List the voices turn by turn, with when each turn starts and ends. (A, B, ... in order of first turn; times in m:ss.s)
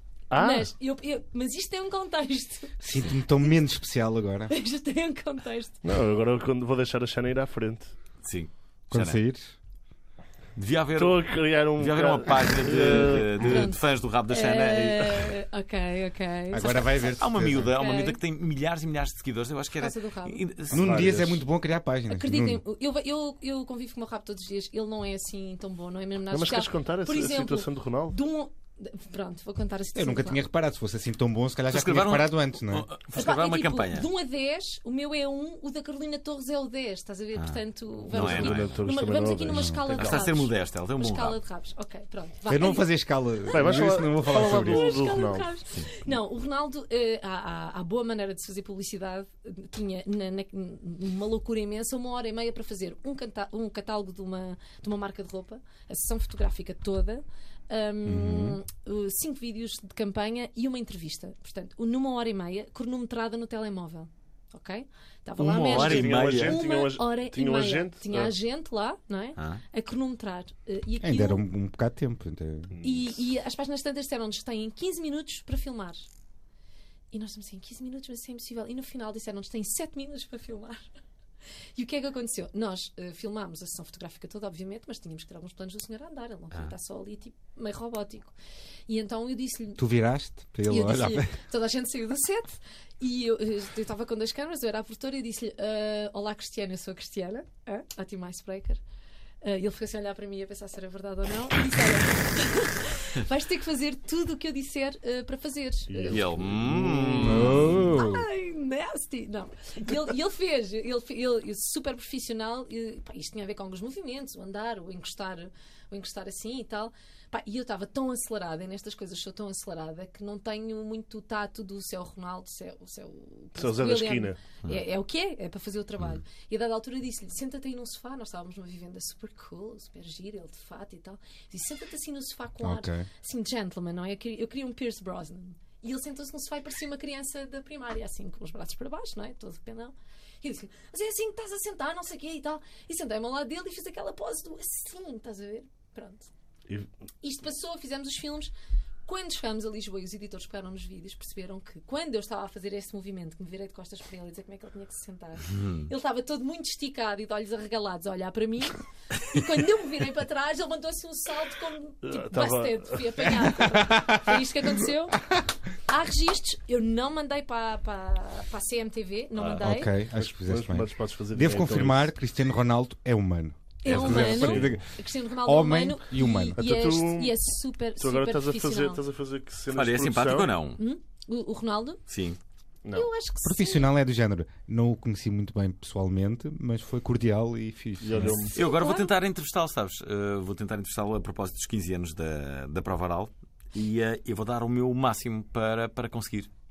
0:00.3-0:00.7 A
0:00.3-0:03.5 B
0:02.8-0:04.5 C
0:04.5-0:05.8 B
0:05.8-0:07.9 A
0:08.2-0:09.2 D
0:08.9-0:09.5 C
0:10.6-0:15.3 D
0:11.0-0:13.7 A
0:13.4-0:18.2 B
0:16.5-0:17.7 C
0:17.2-0:21.1 D
0:19.8-0:20.4 B
0:20.7-0:22.6 C
0:20.7-0:21.4 A
0:22.1-0:30.4 B
0:26.3-0:28.2 A
0:29.9-0:32.9 C
0:31.7-0:34.1 D
0:33.1-1:11.4 B
0:37.4-0:38.8 D
0:38.1-0:40.3 A
0:39.5-0:39.8 C
0:39.9-0:41.4 D
0:42.5-0:45.0 C
0:43.5-0:45.5 A
0:58.0-0:58.6 C
1:05.4-1:06.6 D
1:05.6-1:08.3 A
1:09.4-1:09.6 D
1:11.0-1:12.7 C
1:12.8-1:13.1 A
1:12.8-1:16.0 B
1:17.1-1:20.9 B
1:21.8-1:28.3 B
1:28.9-1:29.8 B
1:29.8-1:31.3 C
1:30.7-1:38.8 B
1:39.4-1:46.4 B
1:45.9-1:48.0 A
1:46.1-1:47.9 D
1:47.2-1:48.2 C
1:47.9-2:26.3 B
2:03.6-2:04.4 A
2:12.6-2:13.1 C
2:27.2-2:28.5 B
2:29.0-2:45.2 B
2:35.5-2:35.9 D
2:42.0-2:43.3 A
2:43.7-2:44.4 C
2:45.9-2:50.0 B
2:49.6-2:56.6 C
2:50.1-2:52.1 A
2:53.8-2:59.0 B
2:53.9-2:54.6 D
2:54.0-2:54.7 A
2:56.5-2:57.3 A
2:58.0-3:00.5 A
2:59.7-3:00.8 D
3:00.8-3:02.0 B
3:02.1-3:02.4 D
3:02.9-3:03.9 B
3:03.4-3:08.4 C
3:08.0-3:08.5 A
3:08.2-3:09.1 B
3:08.5-3:16.5 D